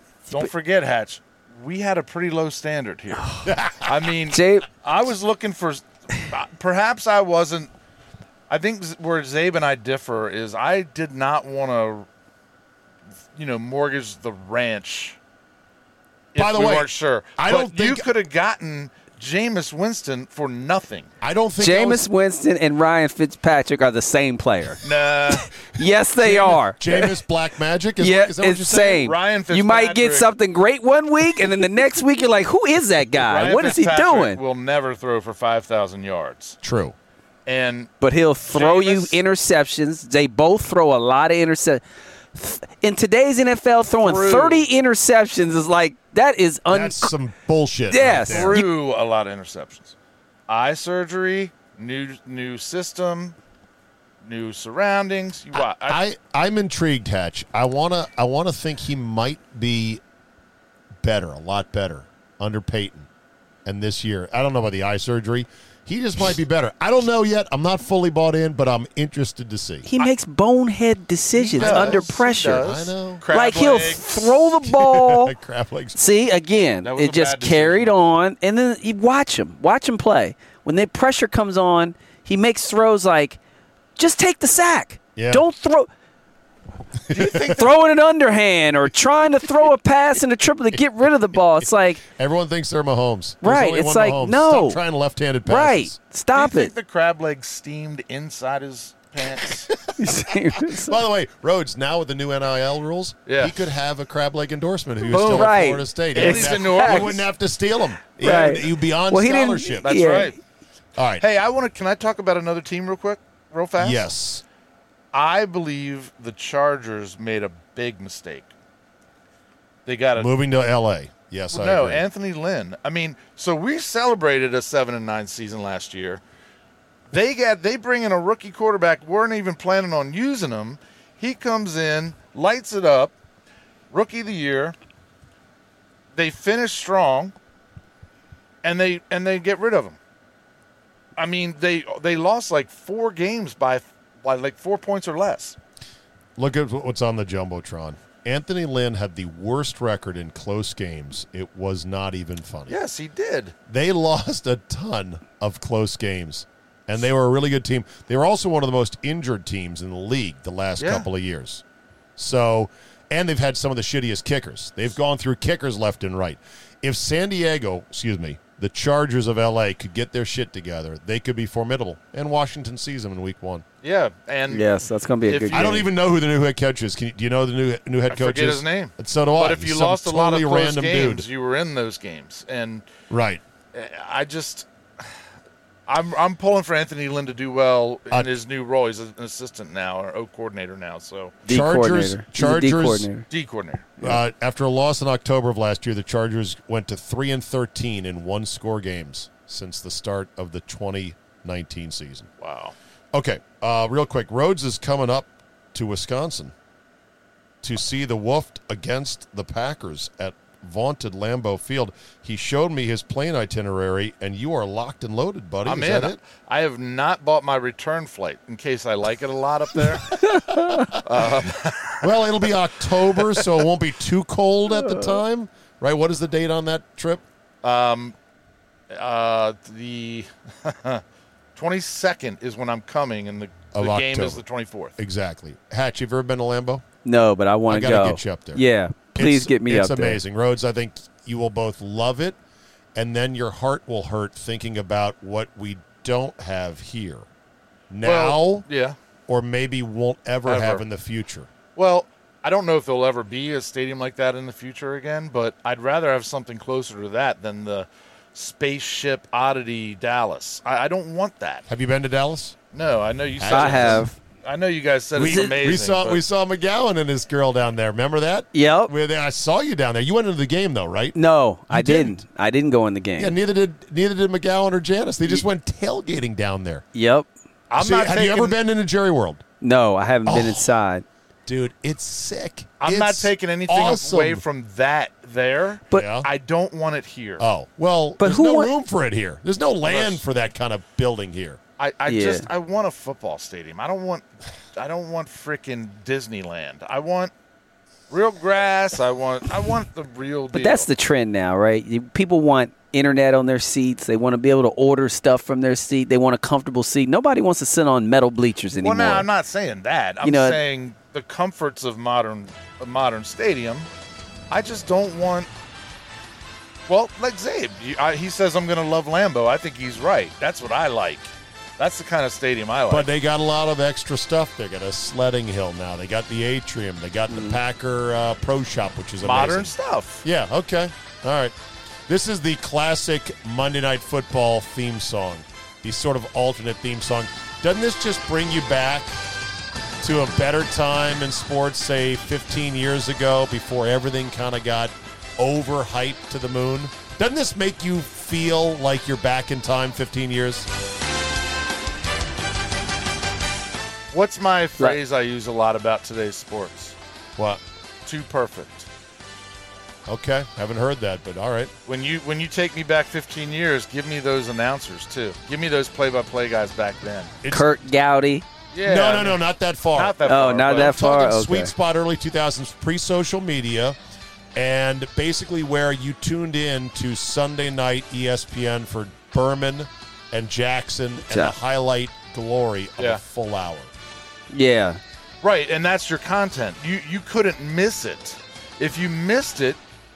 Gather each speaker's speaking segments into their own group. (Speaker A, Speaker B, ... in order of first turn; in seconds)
Speaker A: 0.3-7.7, 8.5-12.1, 13.3-15.2, 16.3-21.1, 24.8-25.5, 26.2-26.6, 28.9-30.3, 33.2-36.6, 37.5-37.9, 38.5-39.2, 44.0-44.7, 48.3-49.9, 50.5-53.4, 54.2-56.0, 71.4-74.3, 76.8-78.0, 87.1-87.7, 96.3-99.7, 103.3-103.5, 105.1-105.6, 106.1-107.2, 109.8-110.3, 111.2-114.1, 115.1-118.5, 119.8-120.3, 121.5-126.2, 127.1-133.1, 133.9-134.7, 136.1-137.3, 138.6-140.0, 141.2-145.6, 152.7-153.5, 160.8-161.1, 173.8-174.7, 175.2-175.8, 178.1-182.9, 183.7-185.2, 185.9-191.4, 193.3-194.0, 202.4-202.7, 215.6-220.3, 220.9-222.5, 223.1-223.6, 227.6-228.1, 228.9-231.0, 231.6-234.9, 248.0-249.0, 250.4-250.8, 251.8-261.6, 262.7-266.2, 277.7-278.6, 282.8-287.4, 289.8-290.2, 291.8-297.3, 298.1-300.9, 308.7-313.9, 314.5-315.5, 316.9-323.1, 329.2-330.2, 354.1-356.9, 358.0-358.9, 361.9-367.3, 368.7-369.4, 369.9-371.0, 385.4-389.8
Speaker B: 3.4-3.9, 16.4-18.1, 21.2-22.1, 26.4-29.0, 36.6-36.9, 46.7-48.6, 55.8-60.0, 61.0-63.1, 63.6-69.9, 71.5-73.2, 74.6-76.0, 85.2-85.4, 87.1-87.5, 91.6-95.9, 99.7-109.9, 111.0-111.2, 113.8-114.4, 120.2-122.0, 146.3-152.8, 153.7-161.6, 162.2-173.6, 175.5-181.2, 183.1-183.4, 188.1-188.4, 191.5-193.1, 194.0-202.3, 203.1-206.5, 207.6-216.2, 220.3-221.0, 222.0-227.2, 233.7-234.4, 234.9-236.8, 237.7-238.6, 239.1-242.4, 242.9-247.2, 247.9-248.7, 249.3-251.5, 261.7-262.6, 263.4-264.1, 265.1-271.1, 271.7-272.2, 273.2-276.8, 277.8-279.4, 280.2-280.7, 281.4-284.4, 285.9-286.3, 287.4-291.6, 322.9-329.7, 330.2-331.5, 332.1-339.1, 340.0-350.7, 360.1-361.7, 367.4-367.7, 368.8-370.2, 370.7-373.9, 374.5-383.9
Speaker C: 4.3-4.7, 21.6-27.2, 28.0-34.4, 38.0-41.8, 42.3-47.1, 47.9-48.7, 69.8-72.6, 73.3-75.3, 76.0-83.4, 84.0-85.9, 87.2-92.0, 93.4-94.8, 95.5-96.7, 100.0-101.0, 105.1-107.2, 108.2-110.3, 174.5-175.9, 191.4-193.2, 224.8-225.1, 237.0-240.2, 263.5-264.1, 268.5-268.9, 271.1-273.4, 276.9-277.3, 279.6-281.0, 288.2-288.7, 292.1-292.4, 300.5-309.3, 310.2-310.6, 327.3-327.6, 367.5-368.4, 370.2-371.7, 384.5-385.0